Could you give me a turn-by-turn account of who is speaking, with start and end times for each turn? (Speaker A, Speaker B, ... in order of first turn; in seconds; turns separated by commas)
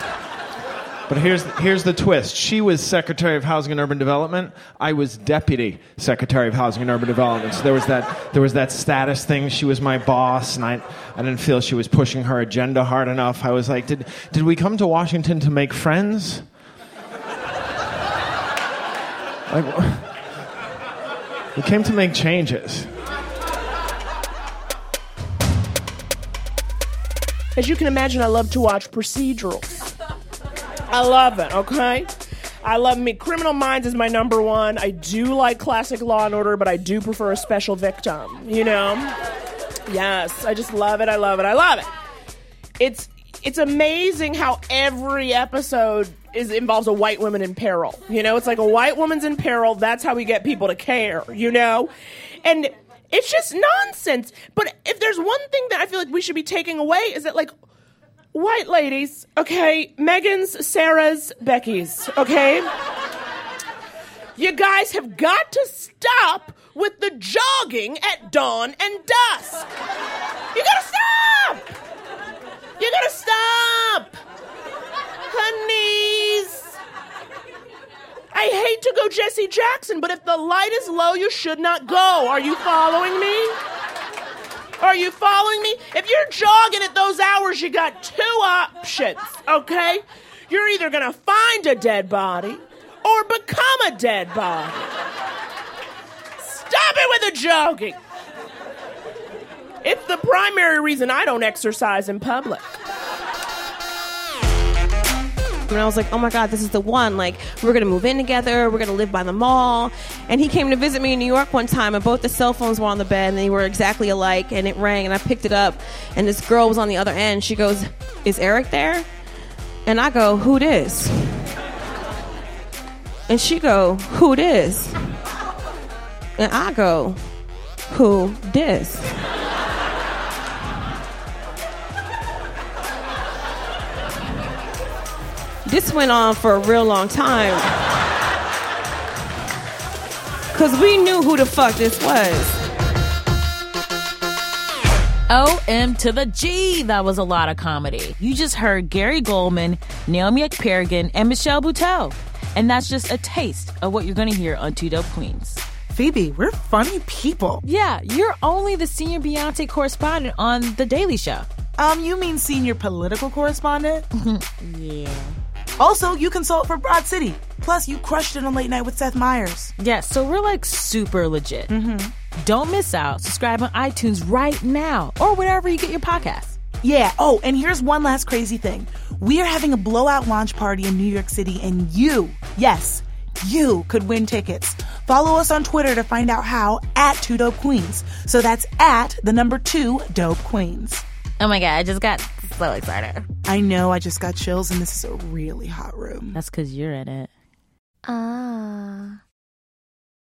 Speaker A: 1.1-16.5, Speaker A: 19.5-20.1, Speaker A: 21.5-22.9, Speaker B: 27.6-29.9, Speaker B: 30.9-32.1, Speaker B: 32.6-39.1, Speaker B: 39.9-41.9, Speaker B: 42.8-51.9, Speaker B: 52.4-57.5, Speaker B: 58.3-62.6, Speaker B: 64.4-69.7, Speaker B: 70.5-71.7, Speaker B: 72.8-74.1, Speaker B: 75.3-76.7, Speaker B: 78.3-83.5, Speaker B: 84.8-94.9, Speaker B: 96.4-98.0, Speaker B: 99.8-102.8, Speaker C: 105.7-119.1, Speaker C: 119.8-121.5, Speaker C: 123.3-125.0, Speaker C: 126.4-127.2, Speaker C: 127.9-129.2, Speaker C: 135.6-137.9, Speaker C: 140.5-142.6, Speaker D: 145.3-155.6, Speaker E: 155.9-157.6, Speaker D: 157.6-161.4, Speaker E: 161.8-164.1, Speaker D: 164.2-165.4, Speaker E: 165.8-169.7, Speaker D: 169.8-171.7, Speaker E: 171.7-172.1, Speaker D: 172.4-176.6, Speaker E: 176.8-191.0, Speaker D: 191.4-193.2, Speaker E: 193.4-196.4, Speaker D: 196.3-197.3, Speaker D: 198.1-199.1